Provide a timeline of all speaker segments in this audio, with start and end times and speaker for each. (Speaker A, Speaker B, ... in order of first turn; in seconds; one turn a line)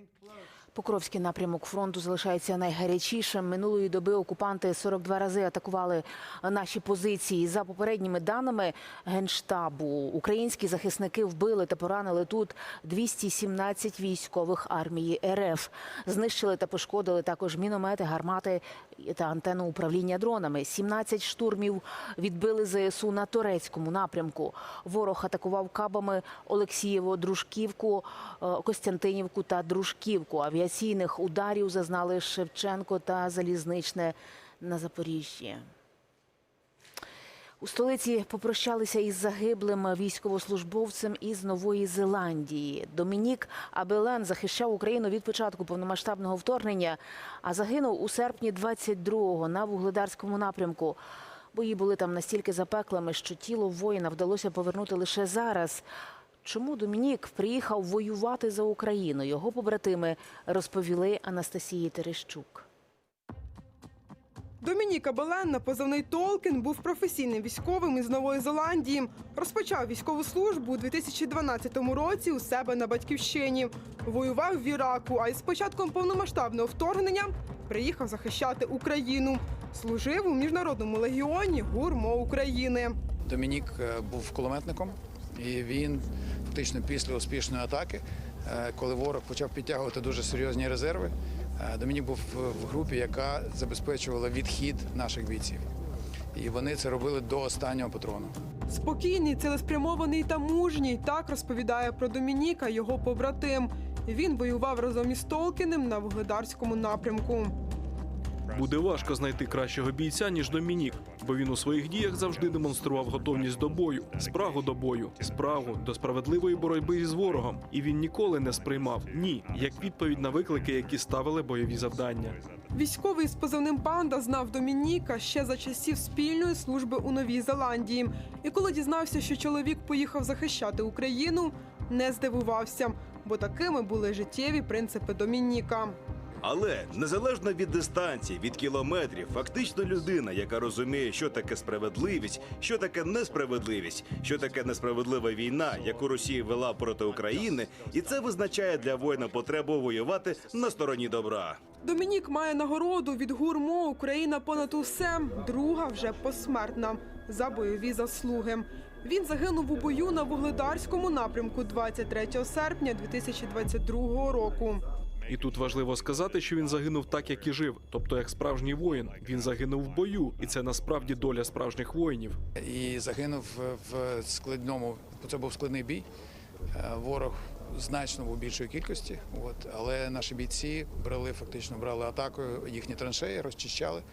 Speaker A: 0.7-35.6
Speaker A: 37.6-51.0
Speaker A: 51.5-55.8
Speaker A: 56.4-62.6
Speaker B: 64.6-83.0
Speaker C: 83.2-95.6
Speaker C: 96.3-98.3
Speaker B: 98.7-107.5
Speaker D: 108.5-109.2
Speaker E: 108.5-122.4
Speaker D: 110.4-111.2
Speaker D: 113.3-114.2
Speaker D: 118.6-120.7
Speaker B: 122.7-136.0
Speaker D: 136.4-151.6
Speaker B: 151.8-164.8
Speaker E: 165.3-172.4
Speaker C: 172.6-176.1
Speaker C: 176.7-184.0